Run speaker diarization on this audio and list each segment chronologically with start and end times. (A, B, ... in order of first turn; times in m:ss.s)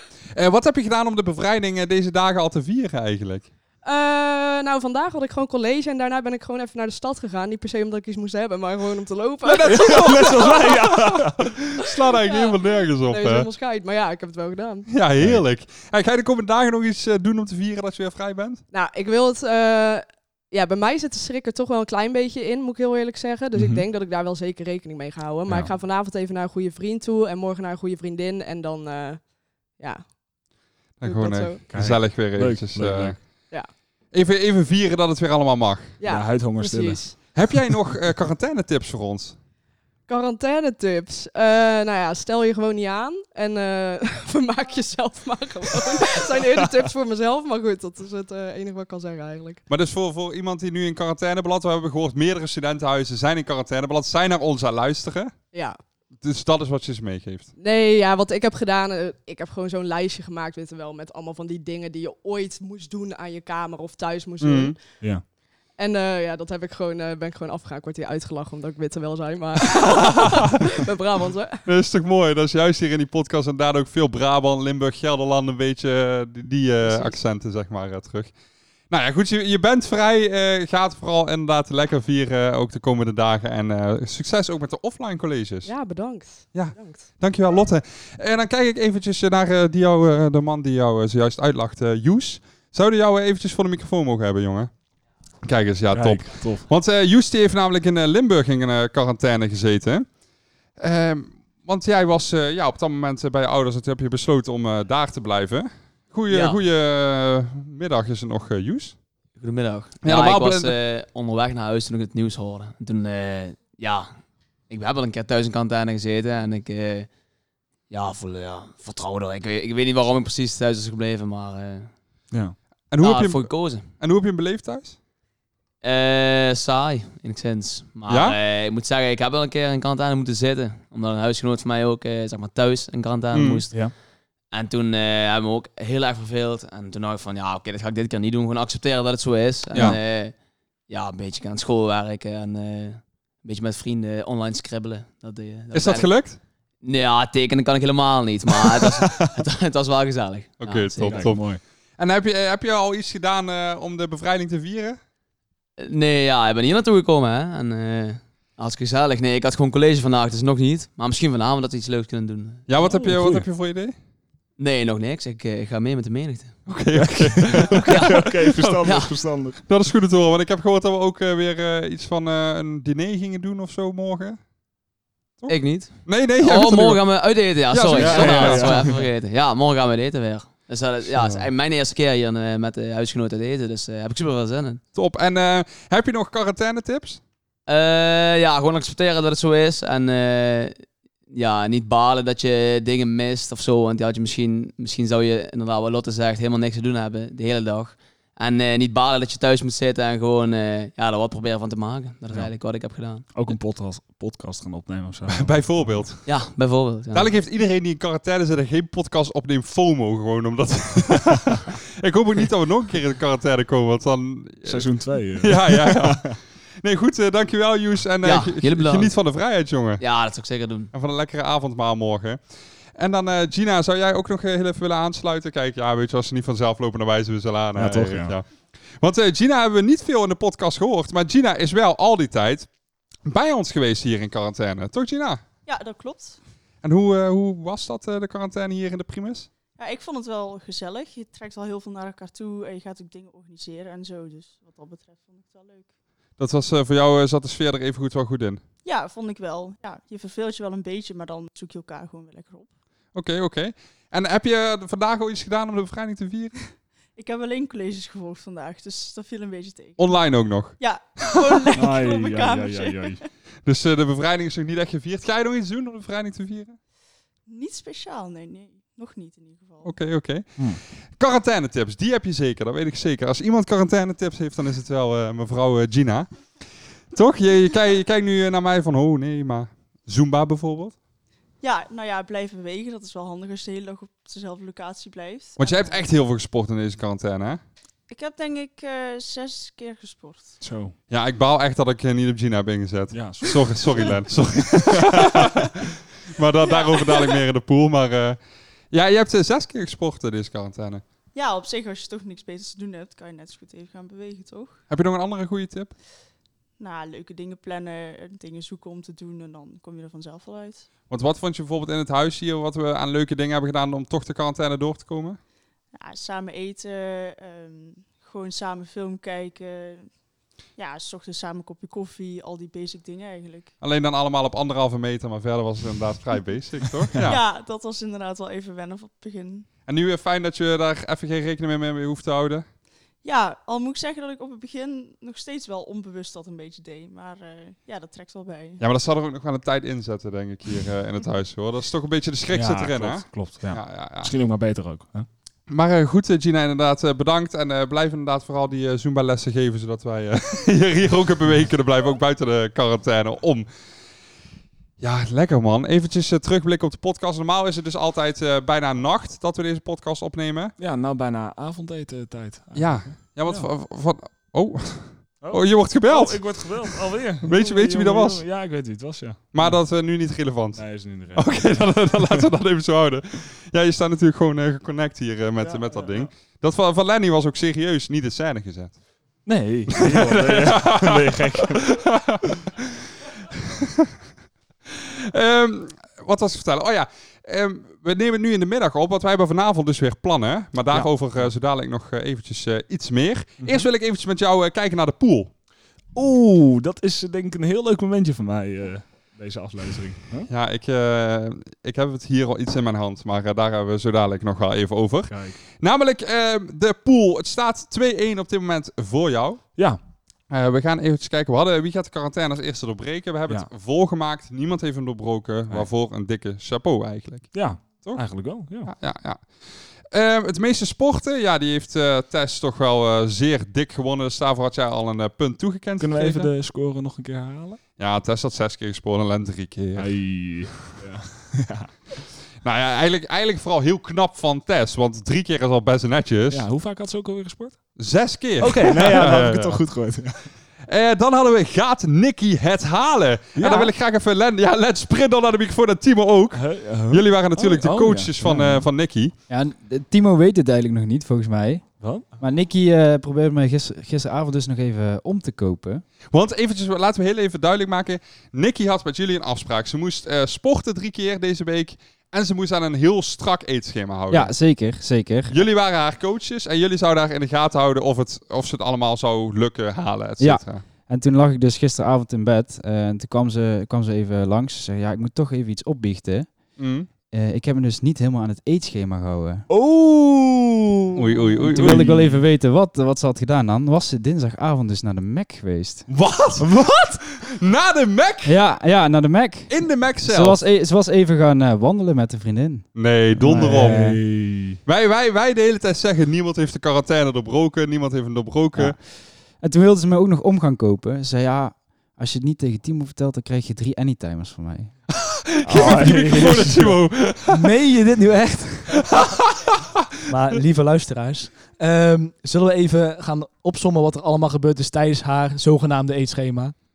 0:00.3-0:03.5 A
0:03.8-0:10.6 B
0:09.4-0:13.5 A
0:09.6-0:11.4 C
0:11.9-0:14.9 B
0:14.9-0:18.6 A
0:15.2-0:15.4 C
0:18.7-0:30.2 B
0:23.5-0:23.8 C
0:25.5-0:25.7 C
0:31.0-0:33.4 A
0:31.0-0:31.7 B
0:31.7-0:33.2 C
0:34.1-0:35.9 A
0:36.0-0:37.2 B
0:36.0-0:37.0 C
0:37.3-0:39.3 A
0:40.1-0:49.6 B
0:49.7-0:55.3 A
0:55.5-0:55.8 B
0:56.2-0:57.5 A
0:57.6-1:05.1 B
1:04.4-1:04.8 A
1:05.8-1:11.6 B
1:09.9-1:10.5 A
1:11.6-1:18.3 A
1:16.8-1:17.1 B
1:18.9-1:25.7 A
1:25.6-1:27.1 B
1:26.5-1:34.7 A
1:35.4-1:40.1 A
1:35.9-1:36.7 C
1:40.8-1:49.0 A
1:46.3-1:46.6 D
1:49.4-1:54.1 D
1:50.0-1:50.7 A
1:54.7-1:57.1 D
1:57.9-2:01.9 D
2:02.9-2:05.0 A
2:03.0-2:03.9 D
2:05.8-2:14.0 D
2:08.1-2:08.4 A
2:13.3-2:13.6 A
2:14.5-2:20.3 D
2:19.7-2:20.0 C
2:20.9-2:26.1 D
2:25.7-2:26.4 A
2:26.8-2:31.3 D
2:28.8-2:29.3 C
2:30.6-2:35.0 A
2:31.0-2:31.6 C
2:35.8-2:42.7 D
2:42.7-2:43.9 A
2:42.8-2:43.5 C
2:44.6-2:46.7 D
2:46.7-2:54.4 A
2:46.9-2:49.7 C
2:47.9-2:48.2 D
2:48.8-2:49.1 D
2:55.4-2:58.9 A
2:55.5-3:04.8 D
2:57.9-2:59.0 C
3:01.2-3:01.4 A
3:04.9-3:07.2 A
3:07.7-3:23.5 D
3:23.3-3:26.1 C
3:25.3-3:26.2 A
3:26.2-3:27.3 D
3:27.1-3:40.0 A
3:34.6-3:36.3 C
3:38.2-3:39.2 D
3:40.0-3:40.9 D
3:40.9-3:42.4 A
3:43.0-3:48.5 A
3:47.7-3:48.4 C
3:49.0-3:52.7 A
3:53.2-3:55.4 A
3:55.6-3:56.4 E
3:56.8-3:59.5 A
3:59.8-4:05.9 E
4:06.4-4:08.6 A
4:08.8-4:12.7 E
4:13.1-4:16.6 A
4:17.2-4:23.2 E
4:20.0-4:20.8 A
4:21.8-4:23.2 C
4:23.6-4:26.8 A
4:27.5-4:29.9 E
4:29.8-4:36.3 A
4:37.1-4:41.0 A
4:41.6-4:46.0 E
4:45.6-4:47.6 A
4:48.1-4:50.6 E
4:50.6-4:50.9 C
4:51.1-4:55.7 A
4:53.1-4:55.5 C
4:56.4-4:58.4 A
4:56.6-4:57.3 E
4:58.9-5:01.0 A
5:01.3-5:04.8 E
5:04.9-5:05.9 A
5:06.8-5:10.9 E
5:11.1-5:15.4 A
5:15.9-5:20.1 E
5:20.8-5:23.7 E
5:23.8-5:27.4 A
5:27.2-5:29.7 E
5:29.9-5:32.6 A
5:33.2-5:38.8 E
5:38.8-5:44.3 A
5:42.5-5:45.3 C
5:45.7-5:53.7 A
5:55.0-6:00.7 A
6:00.8-6:03.7 C
6:02.7-6:08.4 A
6:05.4-6:09.8 C
6:09.5-6:19.0 A
6:10.7-6:12.4 C
6:15.6-6:16.3 C
6:19.4-6:22.0 C
6:20.0-6:22.4 A
6:25.3-6:35.5 A
6:30.9-6:31.5 C
6:33.6-6:33.9 C
6:36.1-6:40.5 C
6:40.5-6:49.8 A
6:45.3-6:45.6 C
6:50.5-7:06.5 A
6:57.5-6:58.9 C
7:06.0-7:07.8 C
7:08.0-7:10.8 A
7:10.0-7:12.0 C
7:12.6-7:16.6 A
7:16.5-7:17.8 C
7:18.0-7:19.8 A
7:18.6-7:20.5 C
7:20.9-7:29.3 A
7:23.5-7:23.9 C
7:26.5-7:28.9 C
7:29.5-7:36.0 F
7:32.0-7:32.3 C
7:36.3-7:44.6 A
7:44.3-7:45.5 F
7:45.5-7:50.8 A
7:50.4-7:59.7 F
7:56.8-7:57.1 A
7:59.7-8:02.4 C
8:01.1-8:02.1 A
8:01.7-8:06.3 F
8:06.1-8:06.7 A
8:06.7-8:06.9 C
8:07.4-8:08.5 A
8:08.4-8:14.2 F
8:09.7-8:10.6 A
8:12.9-8:14.2 A
8:13.4-8:14.8 C
8:14.8-8:19.0 A
8:18.7-8:24.9 F
8:25.5-8:27.7 A
8:25.6-8:27.0 C
8:27.5-8:29.0 G
8:29.0-8:29.7 A
8:30.3-8:36.7 G